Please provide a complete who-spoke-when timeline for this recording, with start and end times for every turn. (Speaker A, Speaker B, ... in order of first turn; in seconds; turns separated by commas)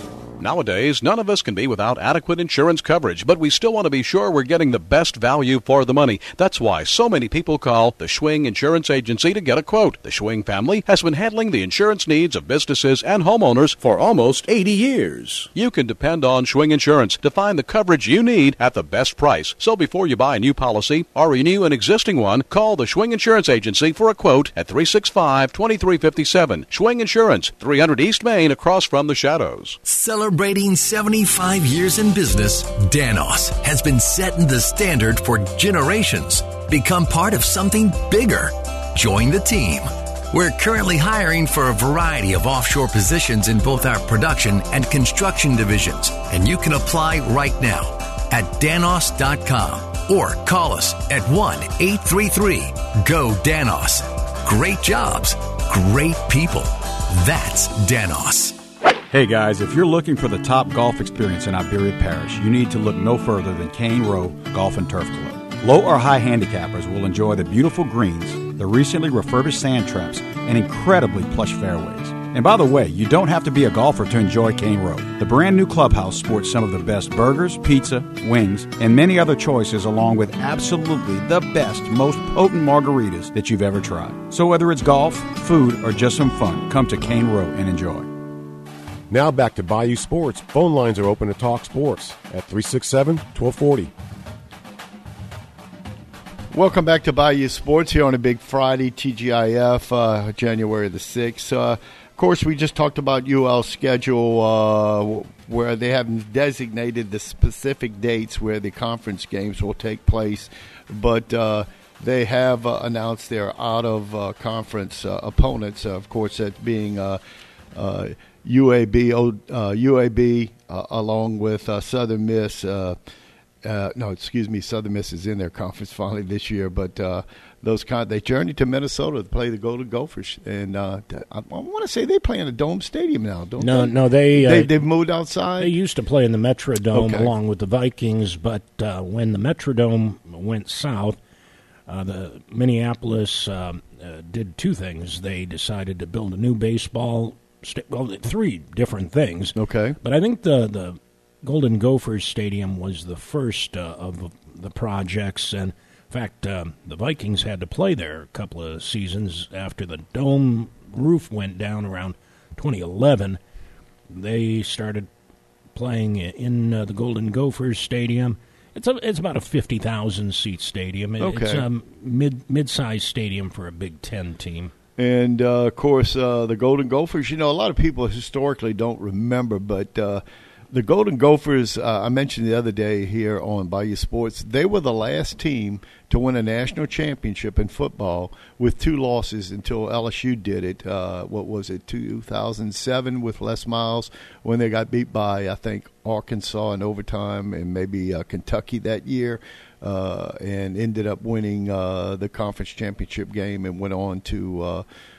Speaker A: 0.4-29.8, Speaker B: 29.9-58.6, Speaker C: 59.1-88.1, Speaker D: 89.1-93.9, Speaker E: 96.5-117.2, Speaker E: 117.7-123.0, Speaker E: 123.6-135.7, Speaker F: 133.6-134.7, Speaker F: 135.6-141.2, Speaker E: 136.9-137.3, Speaker F: 141.9-163.4, Speaker E: 149.6-150.0, Speaker F: 164.1-165.1, Speaker F: 165.8-174.7, Speaker E: 171.2-171.7, Speaker E: 175.0-204.8